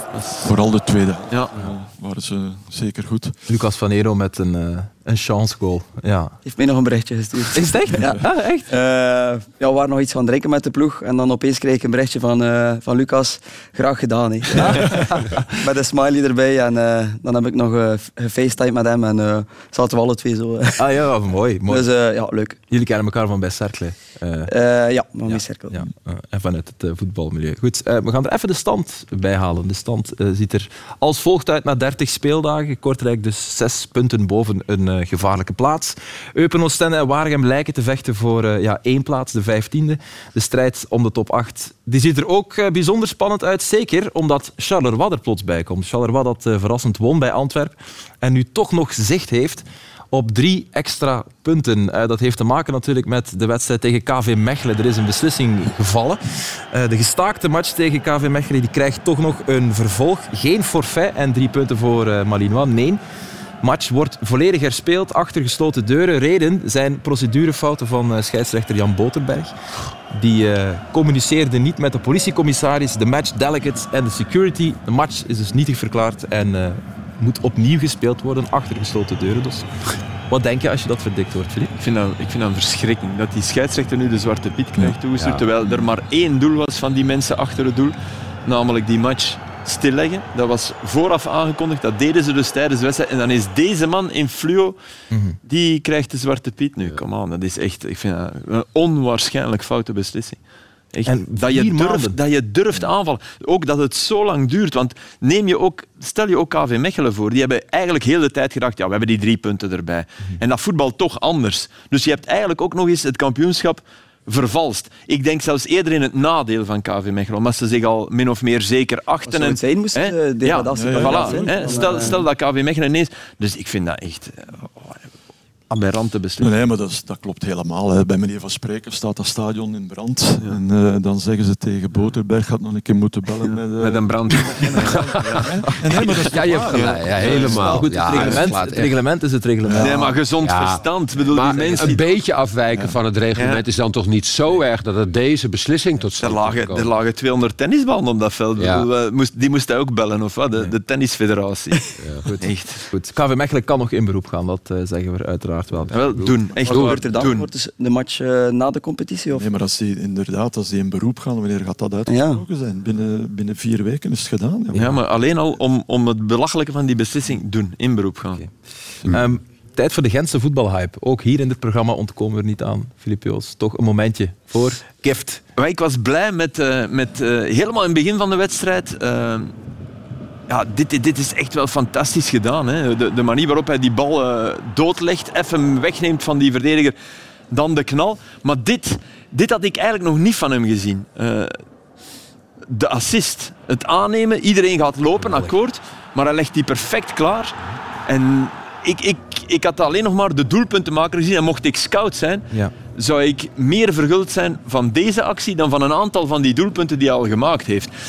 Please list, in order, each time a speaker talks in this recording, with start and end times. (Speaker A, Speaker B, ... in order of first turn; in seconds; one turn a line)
Speaker A: 0.1-0.5
Speaker B: 0.4-3.3
Speaker C: 3.5-6.3
Speaker D: 6.5-20.8
Speaker C: 7.5-8.7
Speaker C: 14.6-15.4
Speaker C: 20.8-21.9
Speaker D: 21.7-22.6
Speaker C: 22.7-24.5
Speaker D: 24.5-25.9
Speaker C: 25.3-63.0
Speaker C: 63.6-69.5
Speaker C: 70.1-79.7
Speaker C: 80.3-81.7
Speaker A: 81.8-94.8
Speaker E: 85.2-85.5
Speaker C: 95.1-95.4
Speaker A: 95.4-100.4
Speaker A: 100.9-125.0
Speaker C: 101.0-102.2
Speaker D: 119.3-122.2
Speaker B: 120.7-122.2
Speaker A: 125.7-126.5
Speaker B: 126.4-138.3
Speaker A: 133.8-138.4
Speaker E: 136.2-138.9
Speaker C: 137.6-140.1
Speaker B: 139.6-140.2
Speaker A: 139.8-142.0
Speaker E: 140.4-146.9
Speaker A: 143.3-143.6
Speaker A: 146.2-152.8
Speaker E: 148.6-148.9
Speaker C: 152.2-156.0
Speaker A: 155.9-157.5
Speaker E: 156.1-157.0
Speaker D: 156.6-159.5
Speaker B: 159.3-164.9
Speaker D: 162.1-162.4
Speaker A: 164.7-168.4
Speaker C: 169.1-175.4
Speaker A: 175.6-179.5
Speaker A: 180.5-186.9
Speaker A: 187.5-191.6
Speaker A: 192.7-207.9